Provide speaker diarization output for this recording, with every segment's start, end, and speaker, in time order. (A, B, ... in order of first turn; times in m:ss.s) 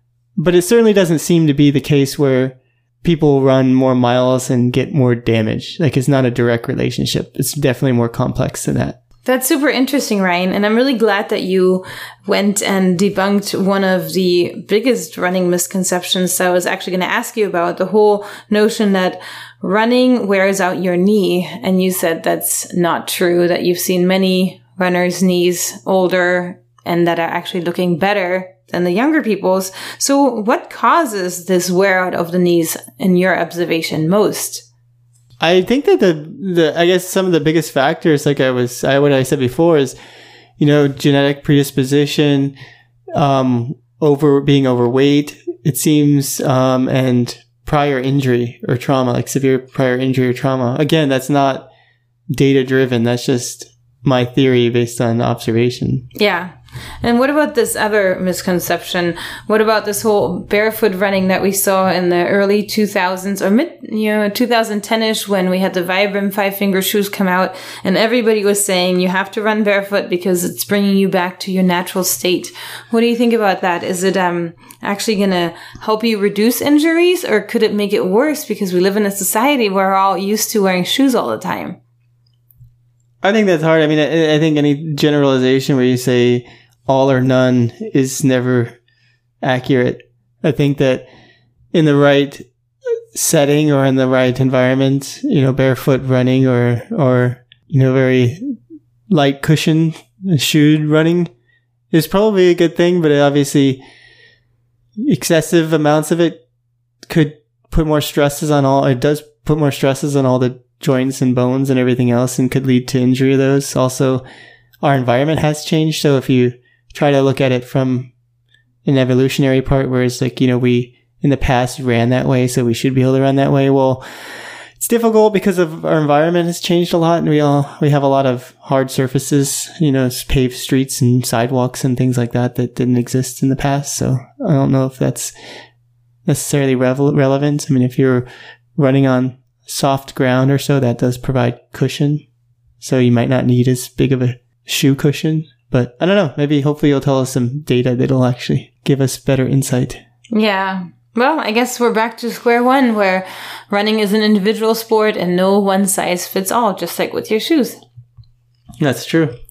0:00.4-0:09.0 A
0:09.2-0:34.6 B
0:35.4-0:40.0 A
0:40.6-0:42.6 A
0:43.1-0:51.7 A
0:52.3-0:56.1 A
0:56.2-1:21.8 B
1:23.2-1:28.8 A
1:29.4-1:31.1 A
1:31.7-1:32.5 A
1:33.1-1:38.6 A
1:39.1-1:41.3 A
1:41.9-1:43.8 A
1:45.0-1:46.4 A
1:47.1-1:54.2 A
1:54.8-1:58.1 A
1:58.8-2:04.0 A
2:04.8-2:15.3 A
2:16.2-2:22.2 A
2:22.8-2:30.0 A
2:30.3-2:37.8 B
2:38.8-2:39.4 A